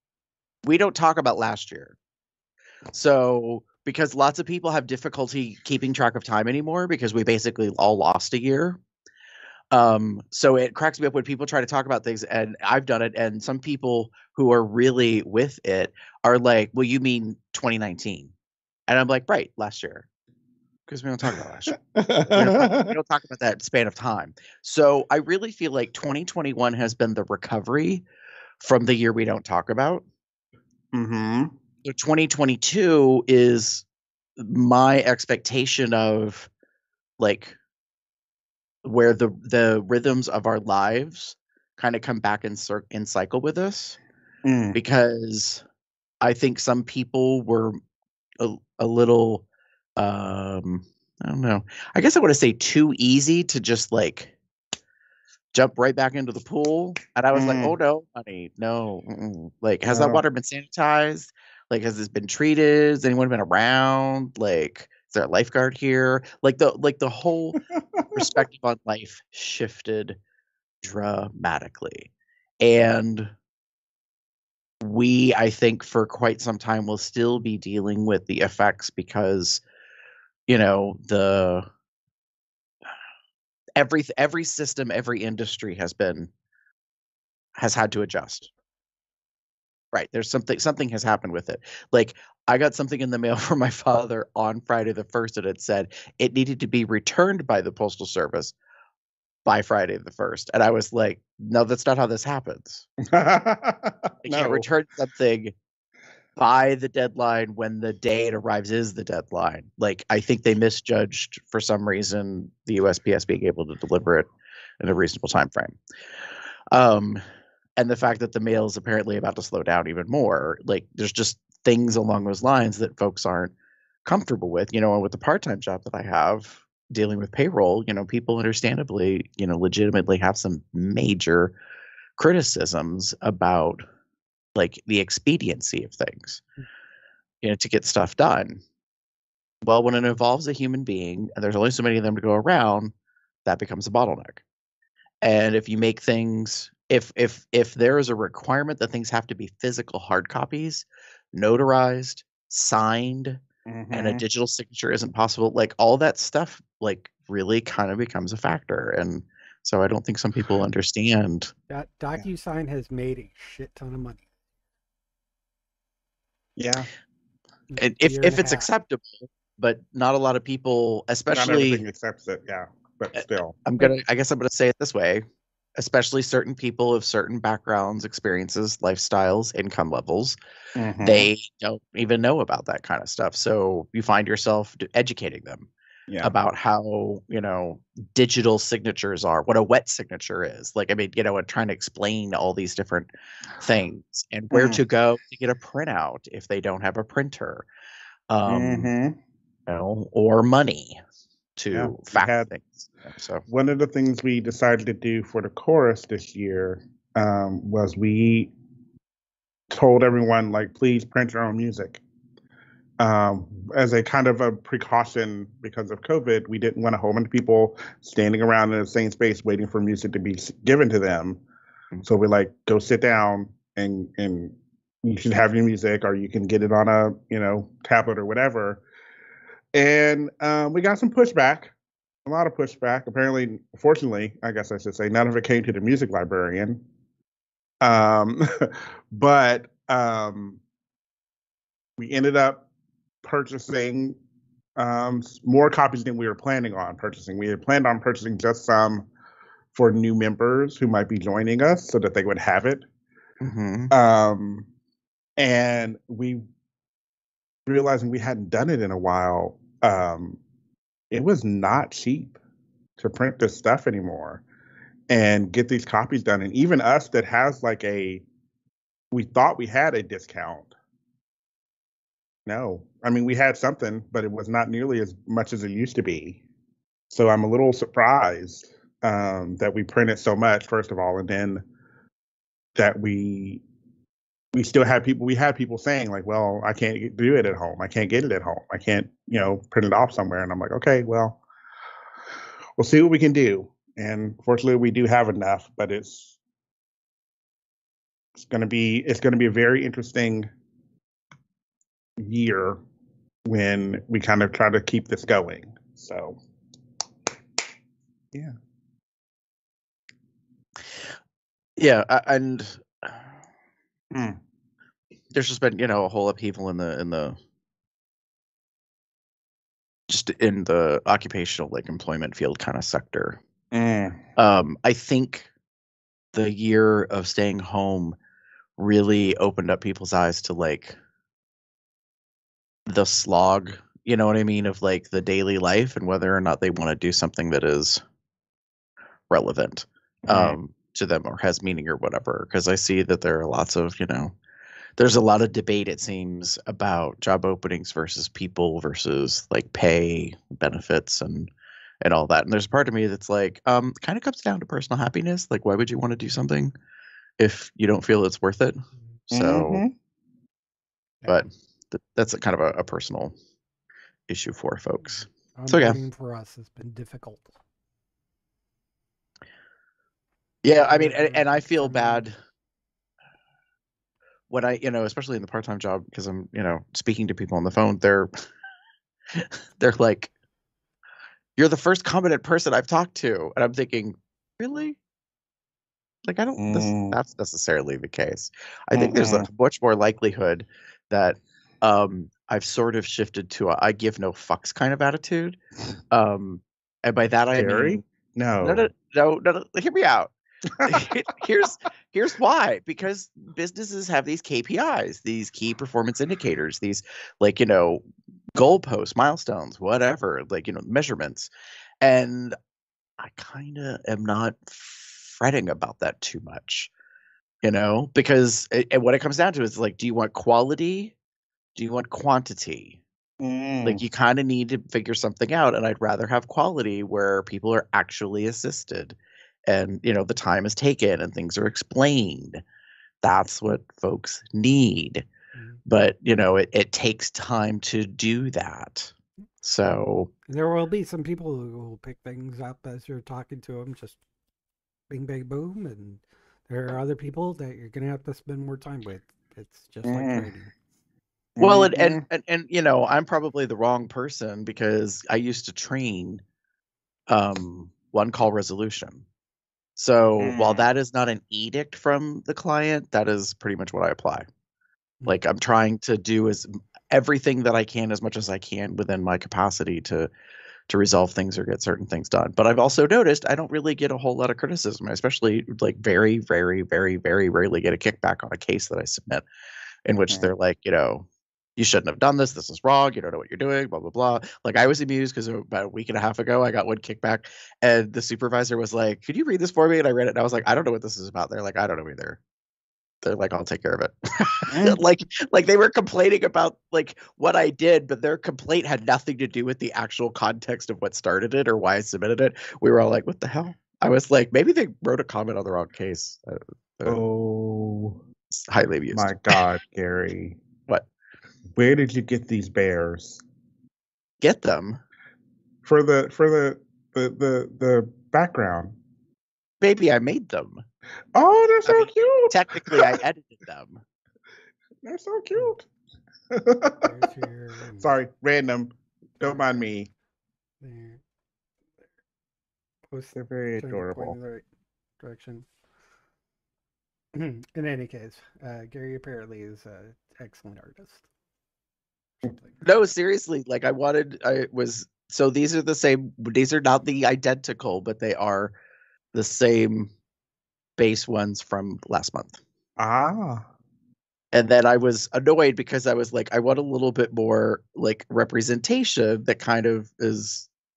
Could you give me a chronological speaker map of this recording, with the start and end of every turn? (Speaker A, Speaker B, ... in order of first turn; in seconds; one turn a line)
Speaker A: 0.6-1.9
Speaker A: 2.9-8.8
Speaker A: 9.7-18.3
Speaker A: 18.9-20.1
Speaker A: 20.9-21.8
Speaker B: 21.3-22.9
Speaker A: 22.3-28.0
Speaker A: 28.6-30.0
Speaker B: 30.9-31.5
Speaker A: 31.8-33.8
Speaker A: 34.4-36.5
Speaker A: 37.2-37.6
Speaker A: 38.8-44.0
Speaker B: 44.4-44.8
Speaker A: 44.7-45.6
Speaker A: 46.2-47.8
Speaker A: 48.4-49.4
Speaker A: 50.0-54.3
Speaker A: 55.5-67.6
Speaker B: 57.3-57.8
Speaker B: 59.9-60.2
Speaker B: 67.9-68.5
Speaker A: 68.1-70.2
Speaker A: 70.8-72.1
Speaker A: 72.6-73.3
Speaker A: 74.8-79.6
Speaker A: 80.5-81.7
Speaker A: 83.8-86.3
Speaker A: 87.5-88.5
Speaker A: 89.9-98.5
Speaker A: 99.4-102.8
Speaker B: 103.0-104.7
Speaker A: 104.2-105.5
Speaker A: 106.4-114.3
Speaker A: 114.8-115.8
Speaker A: 116.7-117.2
Speaker A: 117.8-123.5
Speaker A: 124.0-131.5
Speaker A: 132.2-133.8
Speaker A: 134.5-136.4
Speaker A: 137.4-138.6
Speaker A: 139.6-142.9
Speaker A: 143.4-144.4
Speaker A: 145.2-153.4
Speaker B: 153.7-154.2
Speaker A: 153.9-161.5
Speaker C: 161.7-164.2
Speaker B: 166.6-166.9
Speaker C: 167.7-168.7
Speaker A: 167.8-171.8
Speaker B: 171.3-173.6
Speaker A: 173.2-175.2
Speaker A: 175.8-180.4
Speaker B: 180.7-181.3
Speaker A: 181.0-185.7
Speaker A: 186.2-193.1
Speaker A: 193.6-197.7
Speaker B: 194.5-194.8
Speaker A: 198.3-198.9
Speaker B: 198.4-199.2
Speaker A: 199.7-201.0
Speaker A: 201.6-203.4
Speaker B: 201.7-202.5
Speaker B: 203.5-208.5
Speaker B: 209.7-212.0
Speaker B: 213.0-221.4
Speaker B: 222.0-228.8
Speaker B: 229.7-231.7
Speaker B: 232.2-236.8
Speaker B: 237.8-240.6
Speaker B: 242.0-242.6
Speaker B: 243.2-244.2
Speaker B: 244.8-249.1
Speaker B: 249.7-252.8
Speaker A: 253.4-253.9
Speaker B: 253.9-254.7
Speaker B: 255.4-256.4
Speaker B: 257.6-260.4
Speaker B: 261.1-262.4
Speaker B: 263.0-264.4
Speaker B: 265.1-268.2
Speaker B: 269.1-270.7
Speaker B: 272.4-276.4
Speaker B: 277.1-281.6
Speaker B: 282.8-283.6
Speaker B: 284.5-291.4
Speaker B: 292.8-296.4
Speaker B: 298.4-300.5
Speaker B: 302.2-302.8
Speaker B: 303.4-306.4
Speaker A: 311.8-313.2
Speaker B: 314.1-314.4
Speaker A: 315.3-317.4
Speaker A: 320.1-323.4
Speaker B: 323.7-324.2
Speaker A: 324.4-325.5
Speaker A: 326.3-328.1
Speaker A: 328.8-331.0
Speaker A: 332.9-338.0
Speaker A: 339.3-344.3
Speaker B: 340.3-340.6
Speaker A: 345.0-351.5
Speaker A: 352.0-356.7
Speaker A: 357.4-359.8
Speaker B: 359.3-359.9
Speaker A: 361.2-363.3
Speaker A: 364.3-366.0
Speaker C: 365.0-367.5
Speaker A: 370.6-372.4
Speaker C: 370.8-372.2
Speaker A: 374.5-378.3
Speaker A: 379.3-380.3
Speaker A: 381.6-385.0
Speaker A: 386.2-395.6
Speaker B: 386.6-387.2
Speaker B: 388.9-389.5
Speaker A: 396.1-398.0
Speaker B: 397.5-398.9
Speaker A: 398.6-400.3
Speaker B: 400.8-401.1
Speaker A: 400.8-408.0
Speaker A: 408.5-411.5
Speaker A: 412.0-412.6
Speaker A: 413.2-416.9
Speaker A: 417.6-421.1
Speaker A: 421.8-423.0
Speaker B: 423.4-424.0
Speaker A: 423.8-429.1
Speaker A: 429.7-432.6
Speaker A: 433.2-435.2
Speaker A: 435.9-440.3
Speaker C: 440.5-444.2
Speaker C: 445.1-450.7
Speaker B: 450.1-450.5
Speaker B: 451.6-452.2
Speaker A: 451.6-456.4
Speaker A: 457.3-459.2
Speaker A: 460.0-464.4
Speaker B: 460.4-460.9
Speaker A: 465.2-470.3
Speaker A: 470.9-479.4
Speaker A: 480.1-492.4
Speaker A: 493.2-507.2
Speaker B: 494.7-495.0
Speaker B: 507.1-508.2
Speaker A: 508.7-509.6
Speaker B: 509.1-510.6
Speaker B: 511.8-513.4
Speaker A: 514.4-515.0
Speaker B: 515.8-518.9
Speaker A: 519.8-520.8
Speaker B: 521.3-523.2
Speaker A: 521.9-524.0
Speaker B: 525.0-525.9
Speaker B: 526.5-527.1
Speaker C: 527.0-528.1
Speaker B: 528.0-530.1
Speaker C: 529.4-529.8
Speaker C: 530.8-531.2
Speaker C: 533.1-534.6
Speaker B: 533.3-534.4
Speaker C: 535.2-535.7
Speaker C: 537.3-541.2
Speaker C: 542.4-542.7
Speaker A: 542.8-548.7
Speaker A: 549.3-550.1
Speaker A: 551.0-552.6
Speaker B: 553.0-553.6
Speaker A: 554.5-560.7